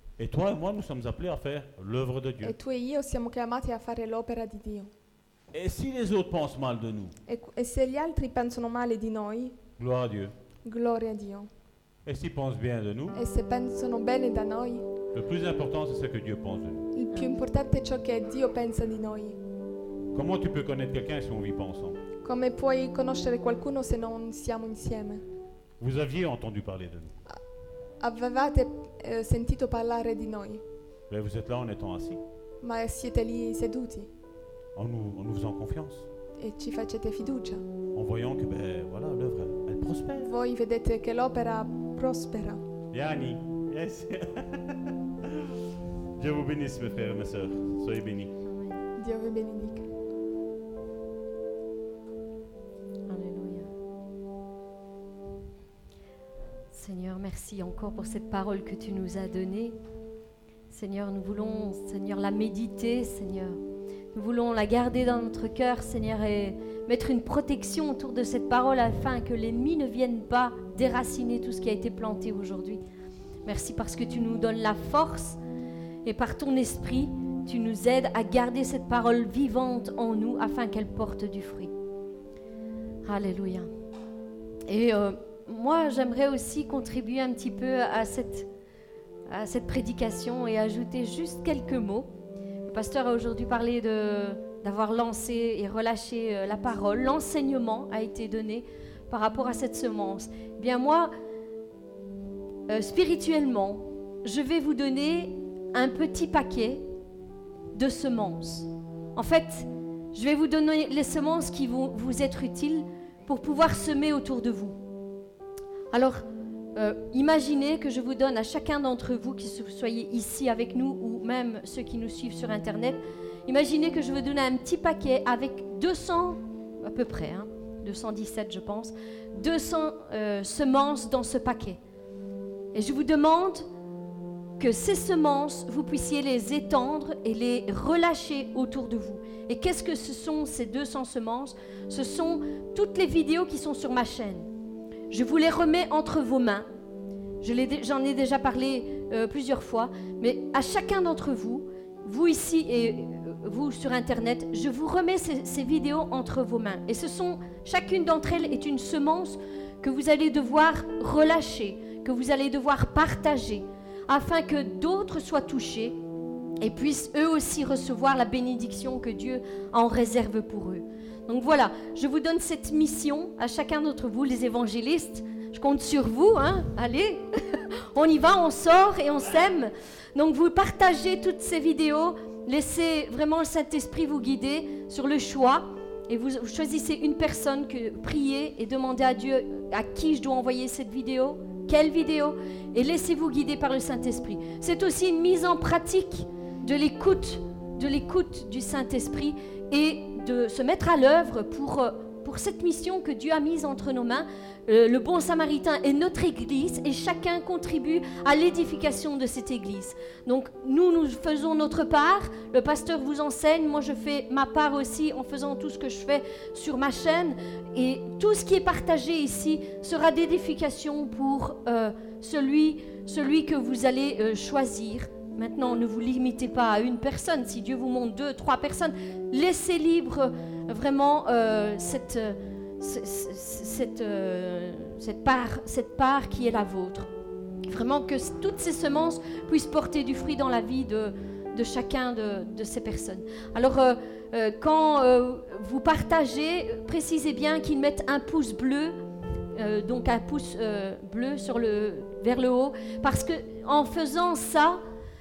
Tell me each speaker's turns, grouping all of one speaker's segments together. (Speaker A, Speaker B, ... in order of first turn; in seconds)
Speaker A: 0.2-2.5, 5.5-7.2, 9.8-10.3, 12.1-13.2, 15.1-16.9, 20.1-22.0, 25.8-27.1, 31.1-32.2, 34.8-36.1, 37.9-40.3, 42.9-45.6, 46.2-48.3
Speaker B: 2.4-4.9, 7.3-9.6, 10.6-11.5, 13.1-14.9, 16.9-19.4, 22.2-25.2, 28.0-30.6, 32.6-34.1, 36.4-37.6, 40.2-42.6, 49.0-49.9
Speaker C: 48.5-48.8, 53.1-53.7, 56.7-59.8, 60.7-63.6, 64.1-72.8, 73.5-75.4, 76.0-81.7, 83.0-83.7, 84.7-88.5, 89.3-92.1, 92.6-101.1, 102.7-106.9, 107.7-114.8, 115.9-116.2, 116.7-131.8, 132.7-133.7, 134.6-144.5, 145.1-146.7, 147.4-166.0, 166.6-237.1, 237.7-248.9, 249.5-254.8